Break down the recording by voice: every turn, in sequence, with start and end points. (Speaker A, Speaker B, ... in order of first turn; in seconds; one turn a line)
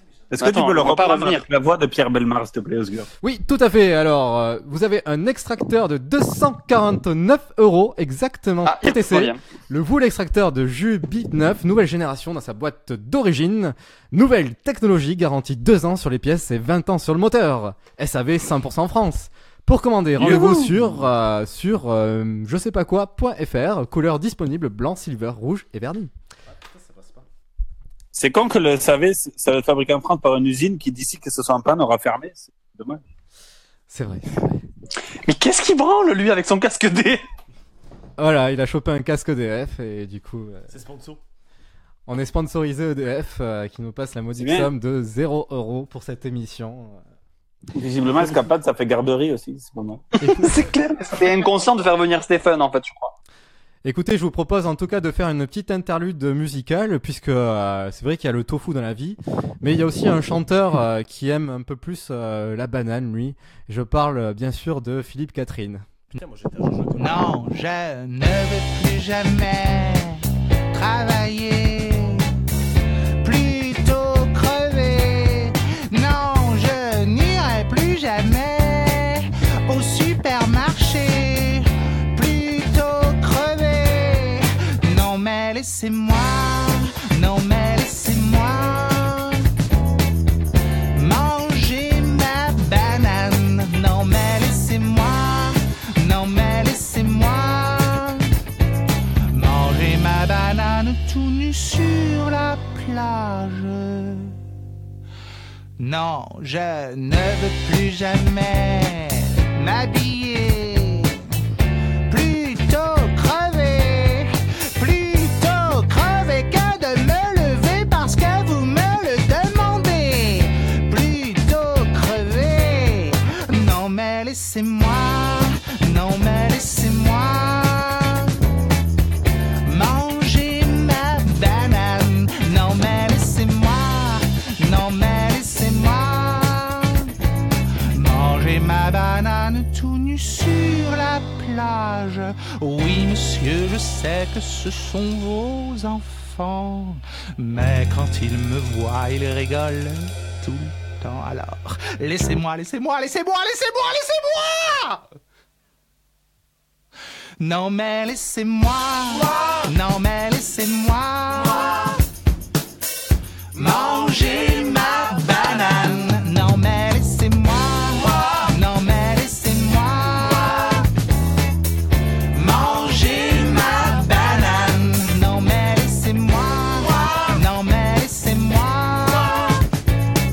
Speaker A: 0.3-3.1
Speaker B: 0.4-1.5
Speaker C: 3.2-26.1
Speaker B: 8.6-9.4
Speaker A: 20.2-20.6
Speaker D: 26.5-27.3
Speaker A: 28.1-33.0
Speaker C: 33.9-34.6
Speaker B: 35.2-37.2
Speaker C: 38.2-40.7
Speaker D: 40.7-41.2
Speaker C: 42.1-47.0
Speaker A: 44.4-44.7
Speaker A: 47.7-50.0
Speaker C: 50.2-50.6
Speaker B: 50.3-53.1
Speaker C: 53.8-65.9
Speaker D: 66.1-67.3
Speaker E: 67.0-72.3
Speaker E: 73.2-89.5
Speaker E: 90.9-98.3
Speaker E: 99.3-104.4
Speaker E: 105.8-111.3
Speaker E: 112.1-128.4
Speaker E: 129.7-137.2
Speaker E: 137.9-155.0
Speaker E: 157.4-162.0
Speaker E: 163.5-170.9
Speaker E: 172.3-179.6